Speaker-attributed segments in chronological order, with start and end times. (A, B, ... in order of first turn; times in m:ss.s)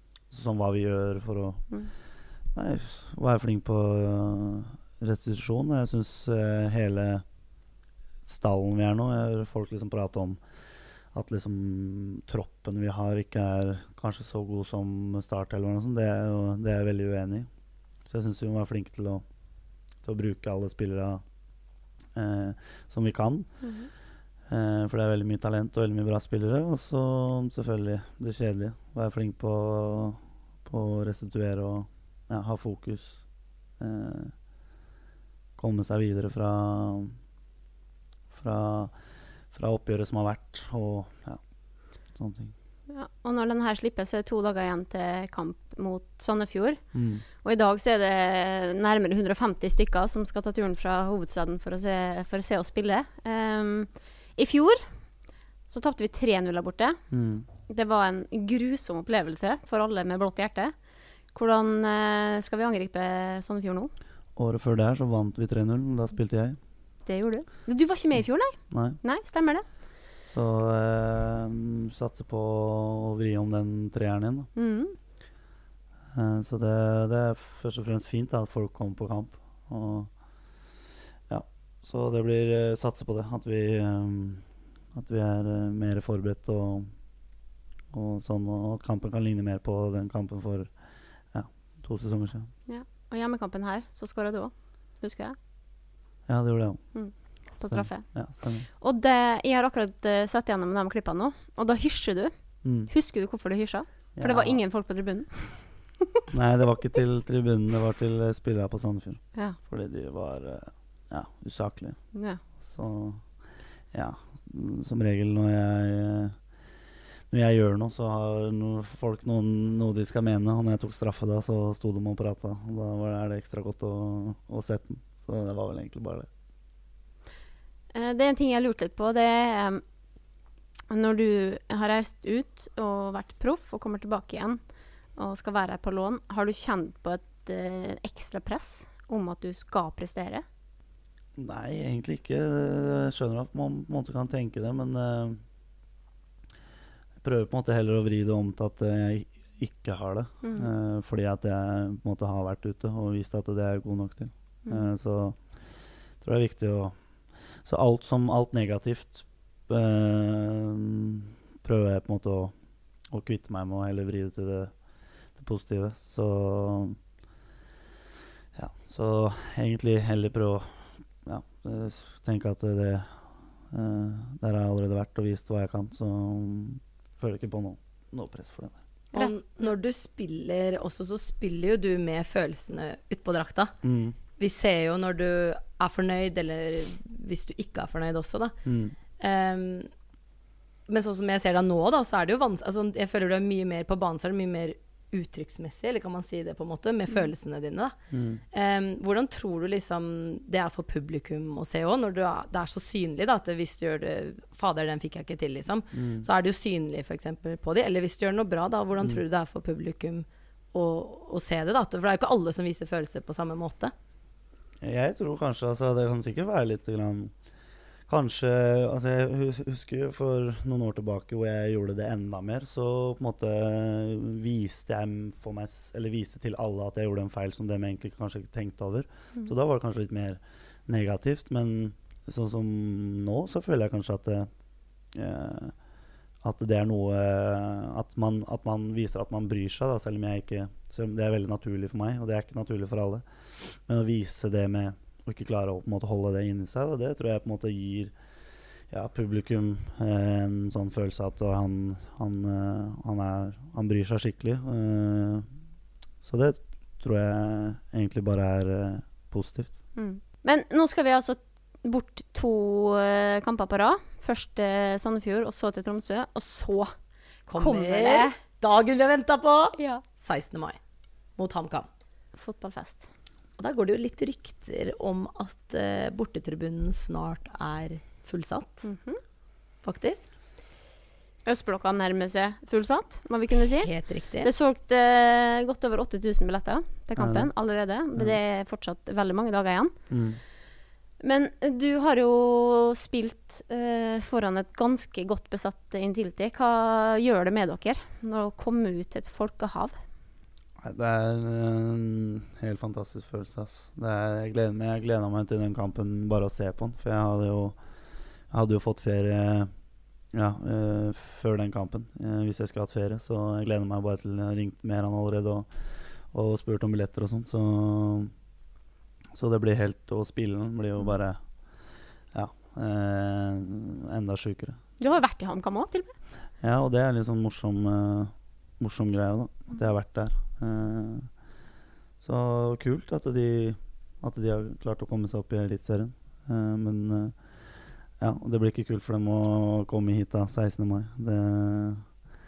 0:00.3-0:07.2 A
0:08.2-0:17.5 A
0:18.0-0:19.2 A
0:20.0-0:21.2 A
0:22.1-0:23.9 A
0:23.6-0:23.9 B
0:24.5-0:34.4 A
0:35.6-0:37.2 A
0:38.3-0:41.4 A
0:42.0-0:42.5 A
0:42.9-0:55.1 B
0:46.9-0:47.2 A
0:55.7-0:57.0 B
0:57.1-0:57.4 A
0:57.7-1:03.9 B
1:04.4-1:06.6 A
1:07.0-1:09.7 B
1:08.7-1:09.0 A
1:10.2-1:14.5 A
1:14.5-1:15.0 B
1:16.1-1:20.8 A
1:21.3-1:27.0 A
1:27.9-1:32.5 A
1:32.7-1:35.4 B
1:36.3-1:38.7 A
1:36.9-1:45.9 B
1:42.6-1:42.9 A
1:44.1-1:44.6 A
1:46.3-1:56.4 A
1:52.1-1:52.4 B
1:57.3-2:06.3 A
2:07.9-2:09.8 B
2:10.9-2:20.4 B
2:21.4-2:25.4 A
2:27.2-2:47.0 A
2:30.4-2:30.7 B
2:48.5-2:58.8 A
2:59.1-3:03.8 C
3:03.8-3:04.2 A
3:04.4-3:08.6 C
3:08.6-3:09.0 A
3:09.2-3:09.9 C
3:10.9-3:33.9 C
3:18.1-3:18.4 A
3:25.9-3:26.3 A
3:34.8-3:37.4 A
3:38.1-3:54.5 A
3:55.0-4:08.1 A
4:08.8-4:15.5 A
4:16.2-4:19.8 A
4:19.9-4:26.9 B
4:27.5-4:30.8 C
4:27.5-4:28.4 B
4:29.8-4:30.0 B
4:31.4-4:31.9 C
4:32.4-4:33.0 B
4:33.6-4:38.9 C
4:38.8-4:39.2 B
4:39.8-4:40.3 C
4:41.4-4:50.0 B
4:43.8-4:44.5 C
4:47.2-4:47.5 A
4:48.1-4:48.4 A
4:50.1-4:50.4 A
4:51.2-5:00.0 B
5:00.8-5:07.8 A
5:08.4-5:09.7 A
5:10.3-5:18.3 A
5:19.3-5:24.8 A
5:25.0-5:26.2 B
5:26.6-5:31.4 A
5:32.2-5:42.2 A